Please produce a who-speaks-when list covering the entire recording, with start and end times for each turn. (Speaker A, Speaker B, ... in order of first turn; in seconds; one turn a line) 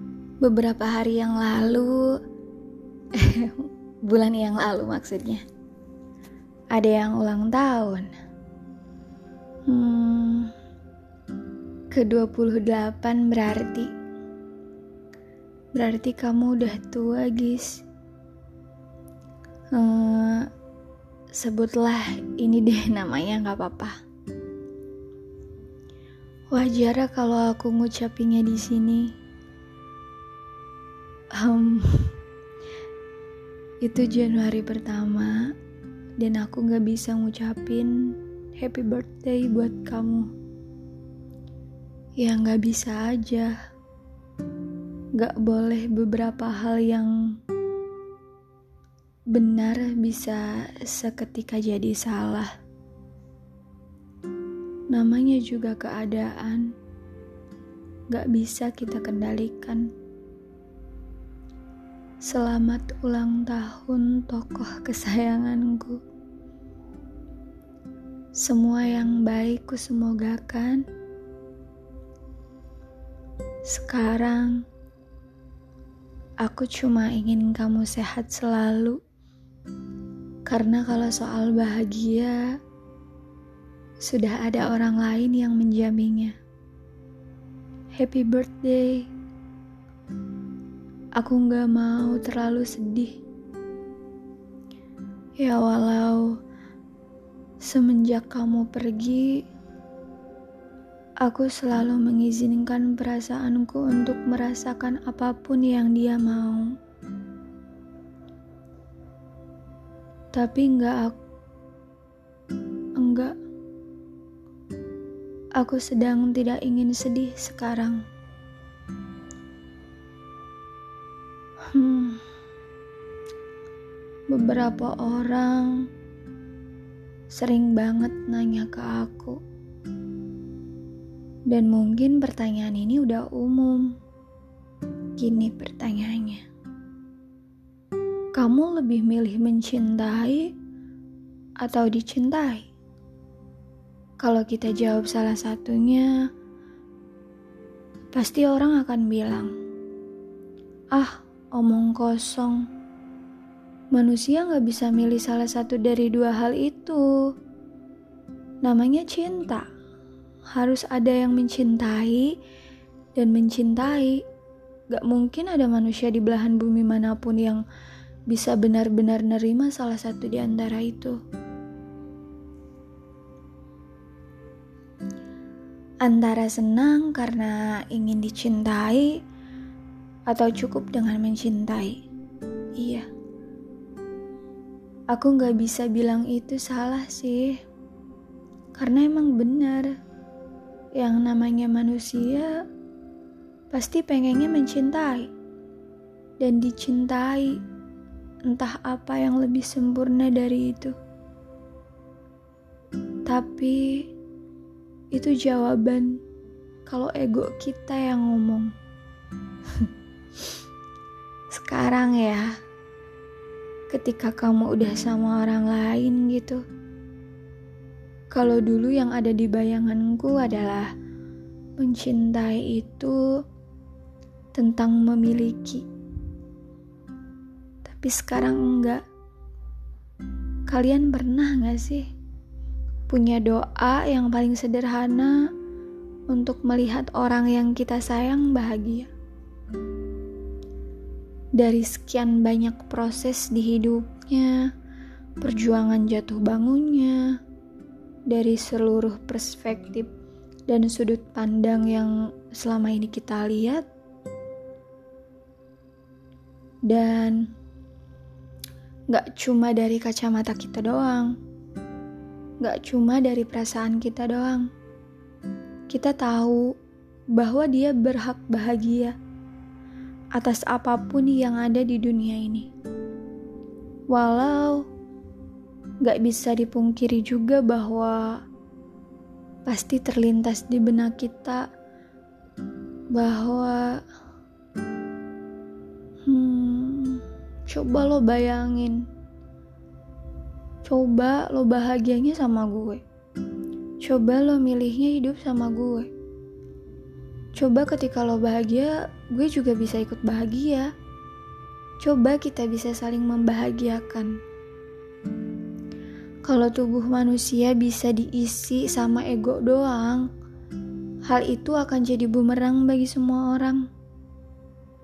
Speaker A: 0.4-2.2
Speaker A: 3.1-5.4
Speaker A: 6.7-8.1
Speaker A: 9.7-10.5
Speaker A: 11.9-13.9
Speaker A: 15.7-17.8
Speaker A: 19.7-20.5
Speaker A: 21.3-24.0
Speaker A: 26.5-29.1
Speaker A: 31.4-32.1
Speaker A: 33.8-35.5
Speaker A: 36.2-40.3
Speaker A: 42.2-43.6
Speaker A: 45.2-47.1
Speaker A: 49.3-52.5
Speaker A: 54.9-56.7
Speaker A: 58.1-59.9
Speaker A: 62.2-66.0
Speaker A: 68.4-70.8
Speaker A: 73.7-74.6
Speaker A: 76.4-79.0
Speaker A: 80.5-82.5
Speaker A: 84.0-86.3
Speaker A: 87.9-89.1
Speaker A: 91.2-93.1
Speaker A: 95.4-96.4
Speaker A: 97.6-99.4
Speaker A: 101.2-106.7
Speaker A: 110.3-111.2
Speaker A: 113.0-113.3
Speaker A: 115.6-118.0
Speaker A: 121.7-122.2
Speaker A: 124.3-125.9
Speaker A: 127.3-129.4
Speaker A: 131.5-133.9
Speaker A: 135.2-136.4
Speaker A: 138.4-140.5
Speaker A: 141.6-142.7
Speaker A: 144.2-146.2
Speaker A: 148.1-149.5
Speaker A: 150.9-152.7
Speaker A: 153.9-157.0
Speaker A: 158.6-159.7
Speaker A: 160.5-162.3
Speaker A: 163.2-164.2
Speaker A: 164.9-167.6
Speaker A: 168.3-171.2
Speaker A: 176.0-179.2
Speaker A: 180.3-182.0
Speaker A: 182.8-183.1
Speaker A: 185.1-187.6
Speaker A: 188.8-189.9
Speaker A: 190.9-192.6
Speaker A: 193.7-195.3
Speaker A: 196.4-197.6
Speaker A: 198.5-200.9
Speaker A: 203.2-204.1
Speaker A: 205.1-206.2
Speaker A: 206.9-208.7
Speaker A: 211.5-212.5
Speaker A: 213.9-216.6
Speaker A: 218.3-220.9
Speaker A: 221.8-223.2
Speaker A: 224.5-225.8
Speaker A: 227.8-229.0
Speaker A: 230.7-232.1
Speaker A: 233.1-235.5
Speaker A: 236.3-239.1
Speaker A: 241.6-244.7
Speaker A: 245.4-247.4
Speaker A: 248.3-250.1
Speaker A: 250.7-253.9
Speaker A: 256.9-257.5
Speaker A: 259.1-261.4
Speaker A: 262.6-264.7
Speaker A: 265.9-266.7
Speaker A: 267.4-269.1
Speaker A: 270.4-272.7
Speaker A: 274.1-274.9
Speaker A: 276.0-278.4
Speaker A: 279.7-281.7
Speaker A: 283.1-284.0
Speaker A: 286.2-289.1
Speaker A: 290.8-293.0
Speaker A: 294.0-296.1
Speaker A: 297.6-300.9
Speaker A: 302.0-304.4
Speaker A: 306.4-310.3
Speaker A: 311.2-313.8